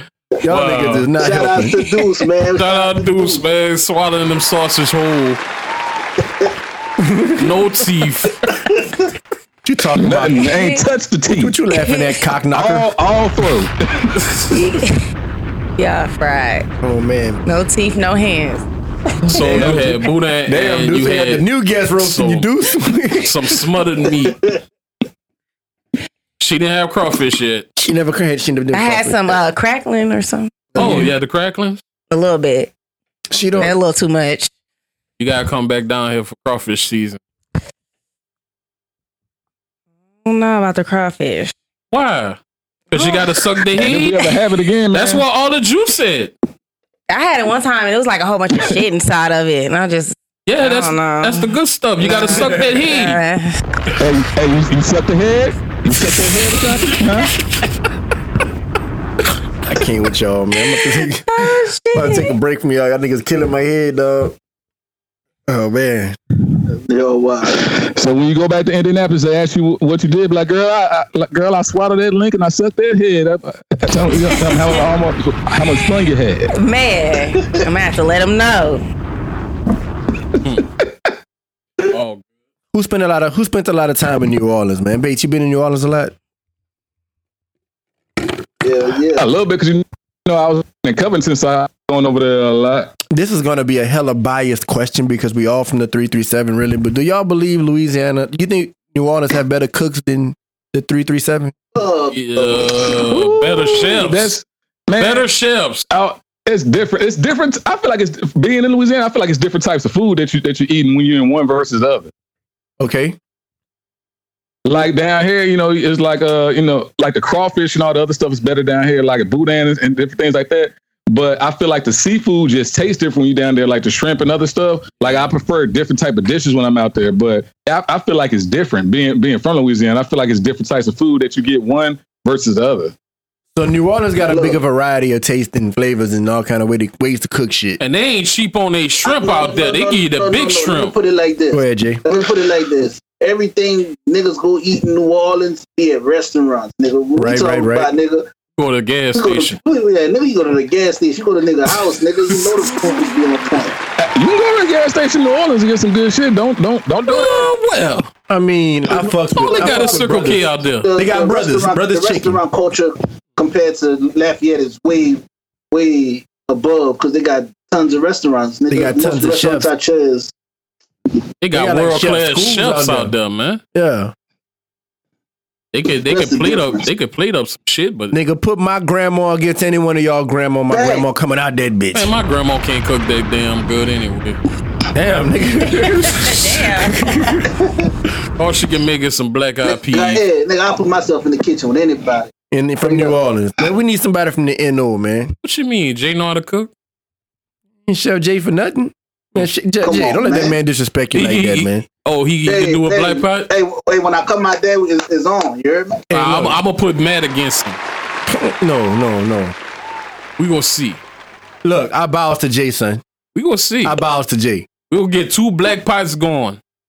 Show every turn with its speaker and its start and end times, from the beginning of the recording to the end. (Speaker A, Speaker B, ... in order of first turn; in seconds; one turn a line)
Speaker A: 0.4-1.8
Speaker B: 0.5-1.1
Speaker C: 1.2-3.4
Speaker B: 2.5-5.4
Speaker A: 7.0-7.7
Speaker B: 7.4-8.5
Speaker A: 9.6-10.6
Speaker D: 10.0-11.5
Speaker E: 10.4-10.8
Speaker A: 11.4-12.9
Speaker E: 11.7-12.2
Speaker D: 12.5-14.2
Speaker E: 14.5-15.0
Speaker E: 15.8-16.7
Speaker A: 16.8-17.4
Speaker E: 17.4-18.7
Speaker B: 19.3-21.5
Speaker A: 19.3-23.6
Speaker B: 22.0-22.5
Speaker B: 23.2-24.4
Speaker C: 24.1-24.6
Speaker B: 26.4-27.7
Speaker A: 27.8-29.4
Speaker E: 28.7-30.9
Speaker A: 30.7-31.1
Speaker B: 30.8-31.8
Speaker E: 32.1-32.7
Speaker A: 33.3-33.8
Speaker E: 33.5-34.5
Speaker B: 35.2-37.2
Speaker E: 40.2-41.5
Speaker B: 41.9-42.4
Speaker B: 42.9-44.3
Speaker E: 42.9-43.3
Speaker D: 43.7-45.2
Speaker B: 44.9-46.3
Speaker E: 47.1-53.6
Speaker B: 50.5-53.2
Speaker A: 52.4-52.6
Speaker D: 54.0-57.3
Speaker A: 56.0-56.7
Speaker A: 59.7-64.3
Speaker E: 61.3-62.4
Speaker A: 65.5-66.2
Speaker C: 66.7-67.7
Speaker D: 67.6-76.5
Speaker E: 74.1-74.9
Speaker E: 75.6-78.8
Speaker B: 81.9-82.2
Speaker A: 82.7-86.2
Speaker C: 88.6-89.3
Speaker D: 89.1-92.9
Speaker A: 93.1-101.5
Speaker C: 101.8-102.9
Speaker B: 102.1-104.3
Speaker A: 103.1-103.8
Speaker D: 104.0-105.2
Speaker B: 105.0-105.8
Speaker D: 105.9-112.1
Speaker A: 112.8-113.2
Speaker D: 114.7-132.9
Speaker A: 133.6-137.8
Speaker C: 134.2-134.6
Speaker B: 137.8-140.9
Speaker C: 139.0-148.3
Speaker A: 141.5-142.0
Speaker A: 147.2-147.9
Speaker B: 148.6-149.6
Speaker C: 149.2-153.8
Speaker B: 152.3-152.6
Speaker D: 154.0-157.5
Speaker B: 157.1-158.1
Speaker A: 158.3-160.4
Speaker C: 158.9-170.3
Speaker B: 159.3-160.9
Speaker A: 160.9-162.4
Speaker A: 168.7-169.7
Speaker B: 171.4-173.6
Speaker A: 171.5-173.1
Speaker A: 173.8-174.1
Speaker B: 175.7-178.2
Speaker C: 176.1-176.9
Speaker A: 178.1-182.1
Speaker C: 180.7-181.1
Speaker B: 181.9-184.4
Speaker A: 184.9-187.6
Speaker B: 185.2-185.9
Speaker E: 185.8-187.1
Speaker B: 188.4-190.2
Speaker C: 189.6-192.3
Speaker A: 192.5-195.3
Speaker C: 192.8-193.2
Speaker B: 195.4-196.7
Speaker A: 197.9-201.8
Speaker C: 199.8-200.6
Speaker B: 201.1-203.5
Speaker C: 202.5-206.1
Speaker A: 206.1-206.6
Speaker B: 206.1-207.8
Speaker A: 208.3-209.6
Speaker B: 210.4-211.0
Speaker A: 211.6-213.0
Speaker B: 213.3-214.0
Speaker A: 213.8-214.7
Speaker B: 214.9-216.6